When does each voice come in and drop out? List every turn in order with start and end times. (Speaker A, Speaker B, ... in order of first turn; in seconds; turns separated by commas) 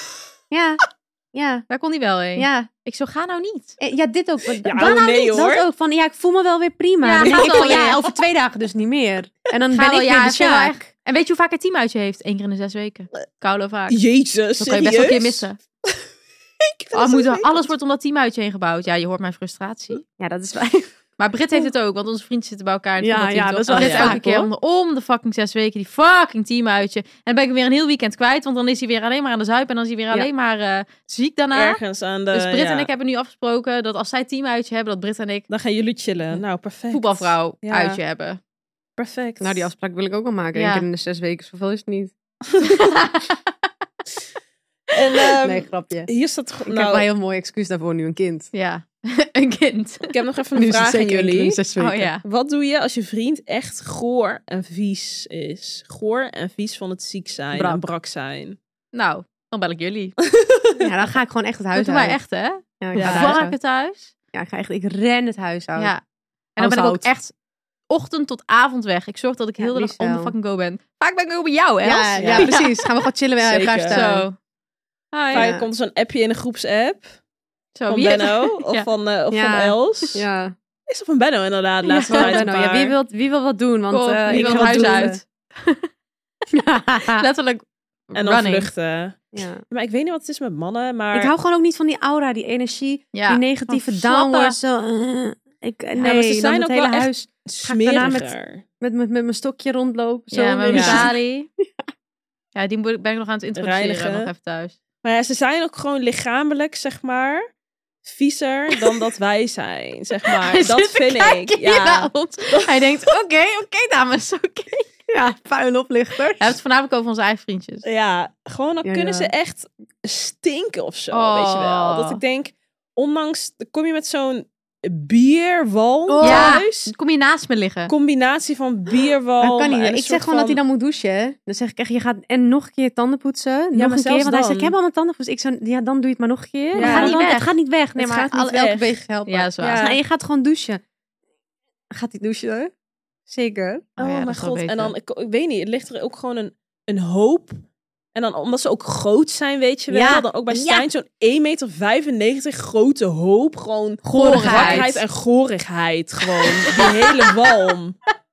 Speaker A: 0.5-1.7, Speaker B: 1.7-3.8, Speaker A: 2.4-2.7, Speaker A: 3.8-10.9, Speaker C: 4.6-5.7, Speaker B: 7.0-8.0, Speaker C: 7.2-7.9, Speaker B: 9.7-14.0, Speaker C: 13.9-16.0, Speaker B: 14.6-15.6, Speaker C: 16.6-17.7, Speaker B: 16.9-20.0, Speaker A: 20.2-20.9, Speaker B: 21.2-31.8, Speaker A: 23.0-24.5, Speaker C: 23.7-24.2, Speaker C: 31.5-32.9, Speaker B: 32.3-35.5, Speaker C: 35.5-38.0, Speaker B: 36.9-38.4, Speaker C: 39.0-39.7, Speaker A: 39.4-42.1, Speaker B: 40.5-40.9, Speaker B: 42.6-43.3, Speaker C: 44.9-47.1, Speaker A: 45.4-46.1, Speaker A: 46.7-48.5, Speaker B: 48.5-50.1, Speaker C: 50.1-51.6, Speaker A: 50.5-52.1, Speaker B: 51.8-52.2, Speaker C: 52.2-58.6, Speaker A: 57.5-57.8, Speaker B: 58.9-60.1, Speaker C: 60.3-60.9, Speaker A: 60.8-62.2, Speaker B: 61.7-64.1, Speaker A: 62.8-63.6, Speaker C: 62.9-63.4, Speaker A: 64.3-65.9, Speaker B: 65.8-66.0, Speaker B: 66.6-67.3, Speaker A: 66.6-67.1, Speaker B: 67.9-72.9, Speaker A: 69.6-70.3, Speaker A: 71.8-74.3, Speaker C: 72.2-72.5, Speaker C: 73.4-74.0, Speaker B: 73.9-74.3, Speaker B: 75.1-75.5, Speaker C: 75.3-77.1, Speaker A: 75.3-75.7, Speaker B: 77.8-78.9, Speaker C: 77.9-80.2, Speaker A: 79.3-80.5, Speaker C: 80.9-83.0, Speaker B: 81.9-82.4, Speaker A: 82.1-85.2, Speaker B: 83.9-85.9, Speaker C: 84.3-85.1, Speaker A: 86.5-87.2, Speaker B: 87.1-88.7, Speaker C: 88.2-91.3, Speaker A: 89.3-89.6, Speaker A: 91.1-101.7, Speaker B: 93.1-94.6, Speaker C: 96.0-98.6, Speaker B: 100.3-101.5, Speaker C: 100.7-101.1, Speaker B: 102.5-104.8, Speaker C: 103.6-104.3, Speaker C: 105.0-107.5, Speaker C: 108.0-112.9, Speaker B: 110.3-114.9, Speaker A: 115.1-116.6, Speaker B: 116.4-117.8, Speaker C: 117.8-126.9, Speaker A: 118.8-119.3, Speaker B: 121.1-122.2, Speaker A: 126.1-126.6, Speaker B: 126.2-127.9, Speaker C: 127.9-130.6, Speaker A: 129.4-140.8, Speaker C: 133.8-134.7, Speaker C: 136.8-137.2, Speaker B: 136.8-137.5, Speaker C: 138.0-139.0, Speaker B: 139.3-139.8, Speaker C: 139.6-140.0, Speaker A: 141.9-142.7, Speaker A: 143.3-144.0, Speaker B: 144.0-144.9, Speaker C: 144.0-147.6, Speaker C: 148.2-157.9, Speaker A: 149.9-150.9, Speaker A: 154.0-155.0, Speaker B: 154.2-155.0